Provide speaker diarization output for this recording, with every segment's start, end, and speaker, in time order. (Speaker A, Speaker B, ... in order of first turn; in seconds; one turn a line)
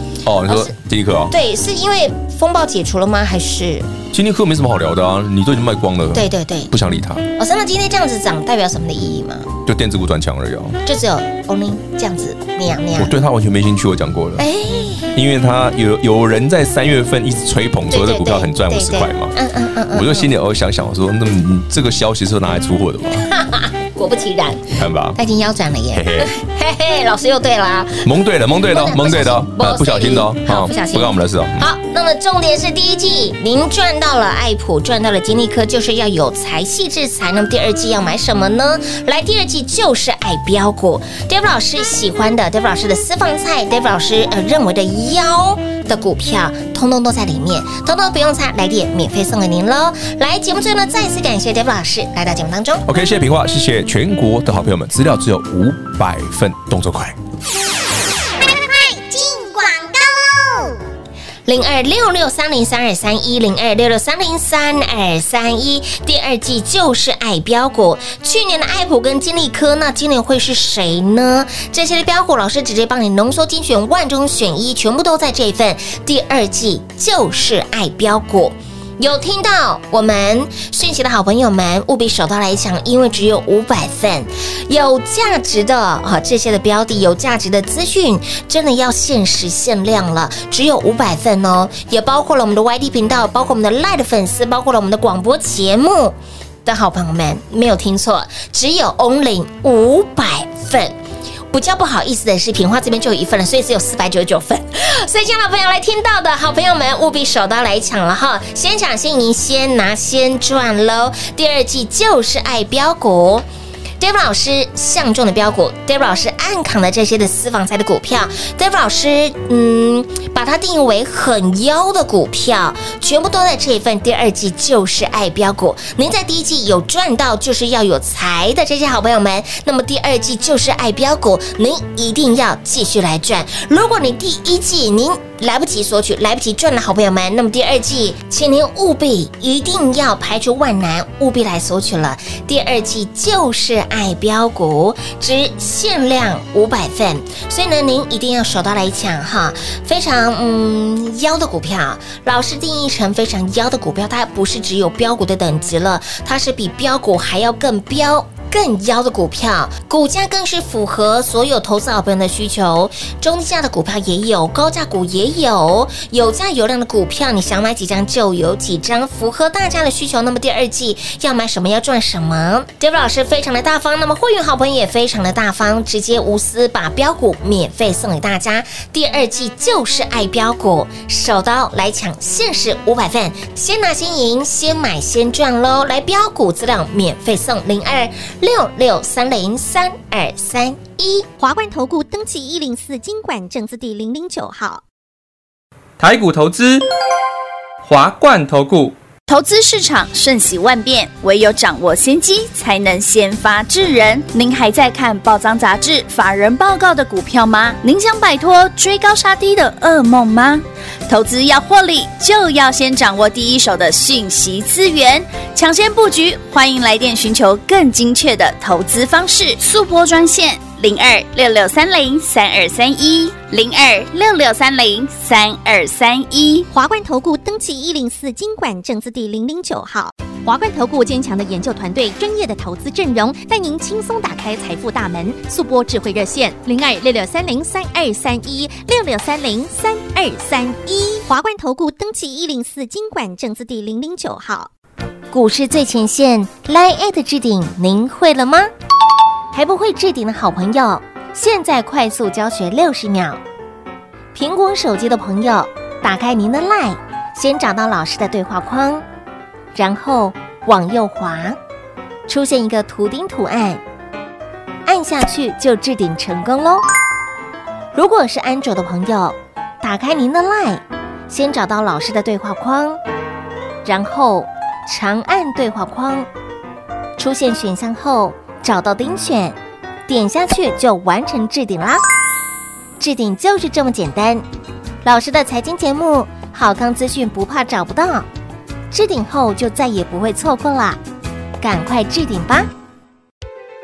Speaker A: 0.2-1.3
Speaker B: 0.5-0.7
Speaker B: 1.3-3.9
Speaker A: 4.1-7.2
Speaker B: 6.1-6.7
Speaker B: 7.4-9.5
Speaker A: 9.7-10.8
Speaker B: 10.8-13.1
Speaker A: 12.9-14.4
Speaker B: 14.4-15.2
Speaker A: 15.1-19.4
Speaker B: 17.9-20.3
Speaker A: 19.9-23.2
Speaker B: 23.2-52.9
Speaker A: 24.7-25.2
Speaker A: 25.9-26.3
Speaker A: 28.0-31.7
Speaker A: 52.9-57.2
Speaker C: 57.5-60.8
Speaker B: 61.5-100.9
Speaker B: 101.5-113.4
Speaker B: 114.0-191.3
Speaker D: 191.4-194.8
Speaker E: 196.0-196.8
Speaker E: 197.8-198.9
Speaker F: 199.3-226.7
Speaker D: 226.7-244.7
Speaker B: 245.3-248.7
Speaker B: 249.5-253.4
Speaker B: 254.3-259.0
Speaker B: 259.7-261.6
Speaker B: 262.3-263.8
Speaker B: 264.9-266.8
Speaker B: 267.9-273.0
Speaker B: 273.8-276.3
Speaker B: 277.2-282.0
Speaker B: 283.0-284.4
Speaker B: 285.0-288.3
Speaker B: 288.9-291.0
Speaker B: 291.6-292.7